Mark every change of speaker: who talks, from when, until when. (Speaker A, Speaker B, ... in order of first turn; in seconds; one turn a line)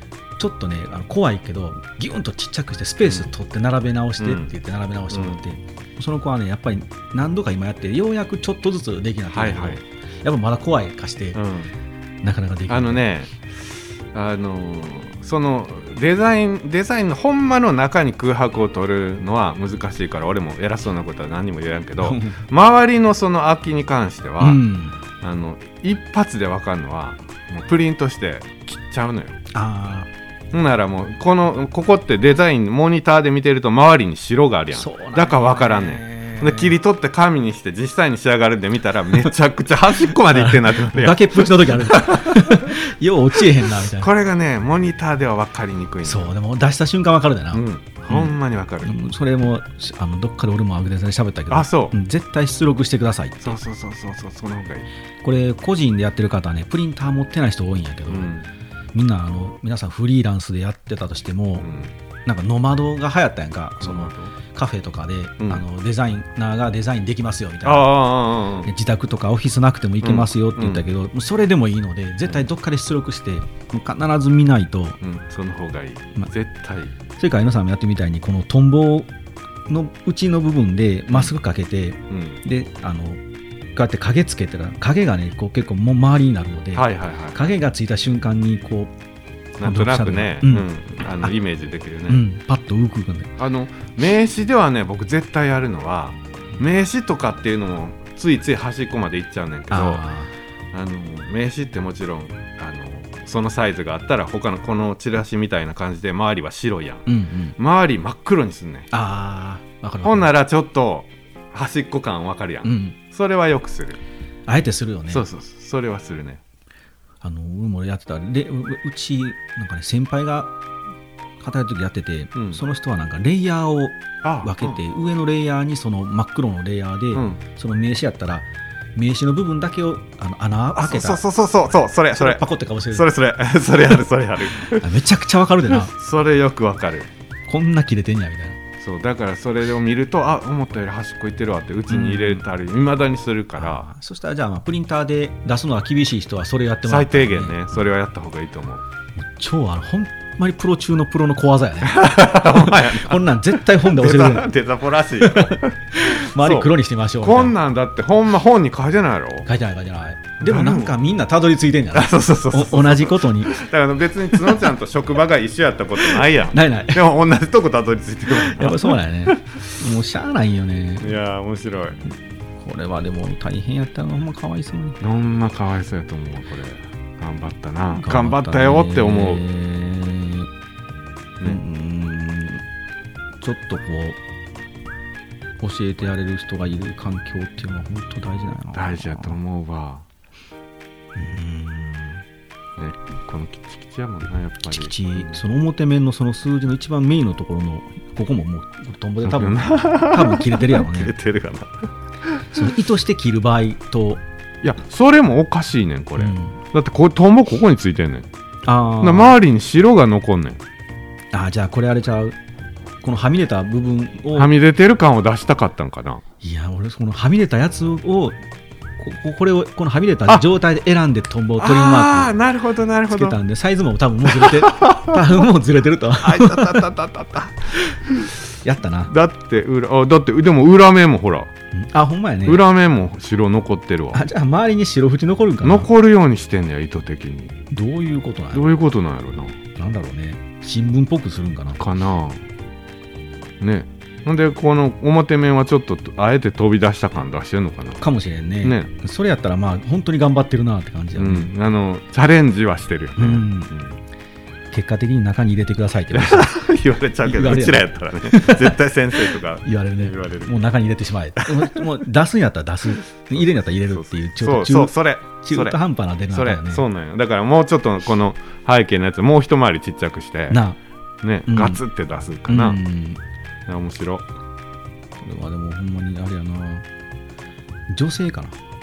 Speaker A: 0.4-11.4
Speaker B: 9.3-9.8
Speaker B: 11.3-11.7
Speaker A: 12.2-13.1
Speaker B: 12.7-13.4
Speaker B: 14.1-24.6
Speaker A: 22.0-22.4
Speaker A: 24.4-25.0
Speaker B: 25.2-29.3
Speaker A: 29.5-30.1
Speaker B: 30.5-42.5
Speaker A: 34.7-36.8
Speaker A: 40.1-44.1
Speaker B: 44.0-46.3
Speaker A: 46.0-53.6
Speaker B: 47.5-48.9
Speaker B: 51.5-51.9
Speaker B: 53.4-54.9
Speaker A: 55.2-58.3
Speaker B: 58.1-58.5
Speaker A: 58.9-61.7
Speaker A: 62.2-68.0
Speaker B: 63.8-64.3
Speaker B: 67.6-68.7
Speaker A: 68.6-75.0
Speaker B: 70.0-70.8
Speaker B: 75.0-76.9
Speaker A: 77.2-79.1
Speaker A: 79.7-83.2
Speaker B: 82.1-82.4
Speaker A: 83.7-88.9
Speaker B: 86.7-87.5
Speaker B: 89.6-92.2
Speaker A: 89.6-90.7
Speaker A: 92.1-93.3
Speaker B: 93.4-100.0
Speaker A: 99.7-100.3
Speaker B: 100.7-107.0
Speaker A: 107.0-107.6
Speaker B: 107.6-108.9
Speaker A: 108.9-110.3
Speaker B: 110.0-114.0
Speaker A: 112.6-113.0
Speaker A: 114.5-115.2
Speaker B: 115.1-116.4
Speaker A: 117.2-120.5
Speaker A: 121.4-131.2
Speaker B: 122.3-122.6
Speaker B: 124.2-124.8
Speaker B: 130.8-132.4
Speaker A: 132.1-133.1
Speaker B: 132.9-134.8
Speaker A: 134.7-135.9
Speaker B: 135.8-137.1
Speaker A: 137.5-138.6
Speaker B: 138.8-143.9
Speaker A: 141.9-142.4
Speaker A: 143.6-147.8
Speaker B: 146.8-148.8
Speaker A: 149.2-154.5
Speaker B: 151.8-153.2
Speaker B: 153.8-159.5
Speaker A: 155.2-157.6
Speaker A: 159.4-163.6
Speaker B: 160.4-160.9
Speaker B: 161.9-169.6
Speaker A: 164.4-164.7
Speaker A: 166.0-167.0
Speaker A: 168.3-171.2
Speaker B: 171.0-172.0
Speaker A: 172.6-175.0
Speaker B: 175.0-179.4
Speaker A: 177.9-180.5
Speaker A: 181.4-182.6
Speaker A: 183.4-184.2
Speaker A: 185.6-189.4
Speaker B: 188.7-190.0
Speaker A: 191.1-192.2
Speaker B: 192.8-195.4
Speaker A: 194.6-201.1
Speaker B: 199.2-202.5
Speaker A: 202.5-204.2
Speaker B: 204.6-208.3
Speaker A: 206.2-206.6
Speaker A: 208.7-209.4
Speaker B: 209.0-210.6
Speaker A: 211.3-212.4
Speaker A: 213.0-214.5
Speaker B: 214.4-216.2
Speaker A: 216.4-218.4
Speaker A: 219.0-222.3
Speaker B: 221.6-223.4
Speaker A: 223.1-226.9
Speaker B: 224.2-225.4
Speaker B: 226.2-228.3
Speaker A: 228.6-229.1
Speaker B: 229.1-231.5
Speaker A: 231.7-232.7
Speaker B: 232.4-234.2
Speaker A: 234.1-235.9
Speaker B: 235.6-237.6
Speaker A: 237.7-238.8
Speaker B: 238.5-239.6
Speaker A: 239.8-241.8
Speaker B: 241.8-242.4
Speaker B: 243.6-248.0
Speaker A: 248.0-251.5
Speaker B: 248.6-248.9
Speaker B: 251.2-253.9
Speaker A: 253.2-253.7
Speaker A: 254.7-256.6
Speaker B: 256.1-260.6
Speaker A: 257.2-266.9
Speaker B: 261.4-261.9
Speaker B: 263.9-265.8
Speaker B: 266.3-270.6
Speaker A: 270.5-270.8
Speaker B: 271.2-272.8
Speaker A: 271.4-271.8
Speaker A: 272.5-273.2
Speaker B: 273.7-274.2
Speaker A: 275.2-276.9
Speaker A: 277.9-278.6